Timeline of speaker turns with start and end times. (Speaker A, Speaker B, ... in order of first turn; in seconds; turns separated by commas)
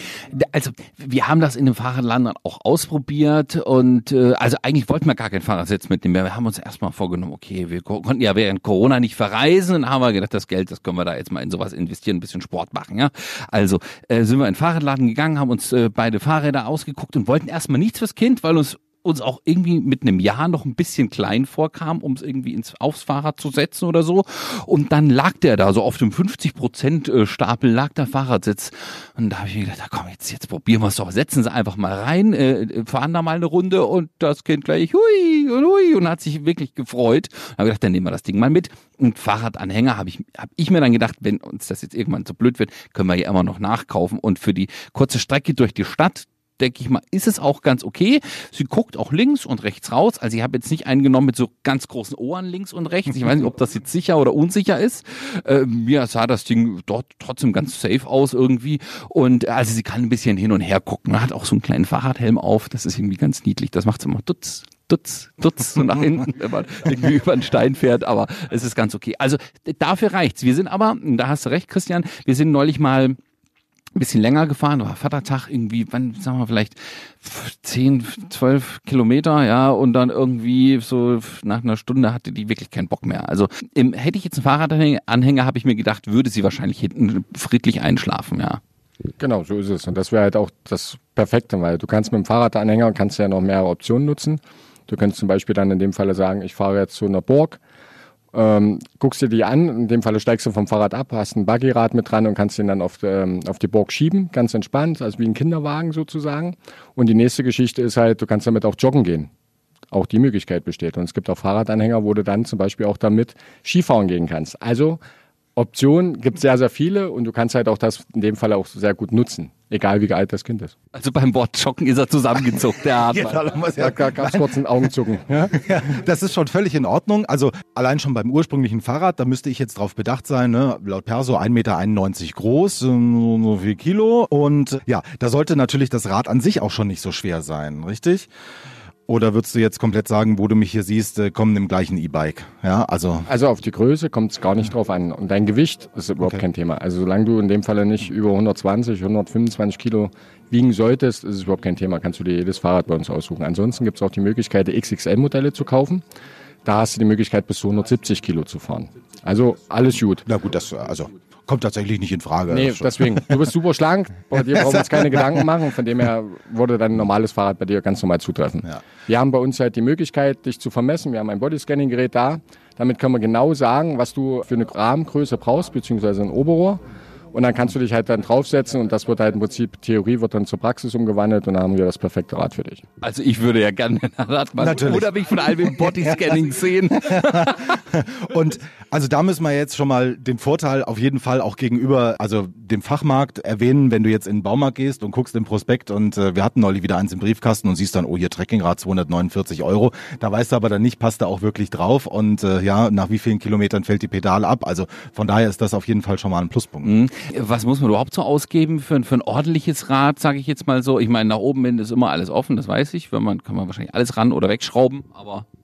Speaker A: 0.3-73.2, Speaker A: 74.0-88.6, Speaker B: 89.2-97.6, Speaker B: 98.3-109.3, Speaker B: 109.9-115.0, Speaker B: 115.6-120.7, Speaker A: 120.9-123.5, Speaker C: 123.1-124.5, Speaker B: 123.7-125.6, Speaker C: 125.5-138.3, Speaker C: 139.1-143.3, Speaker B: 143.3-156.0, Speaker B: 156.7-160.3, Speaker C: 160.3-163.3, Speaker B: 162.5-176.8, Speaker C: 164.7-165.2, Speaker B: 177.3-182.8, Speaker A: 183.0-187.7, Speaker C: 184.6-185.1, Speaker C: 187.1-207.0, Speaker A: 206.8-215.4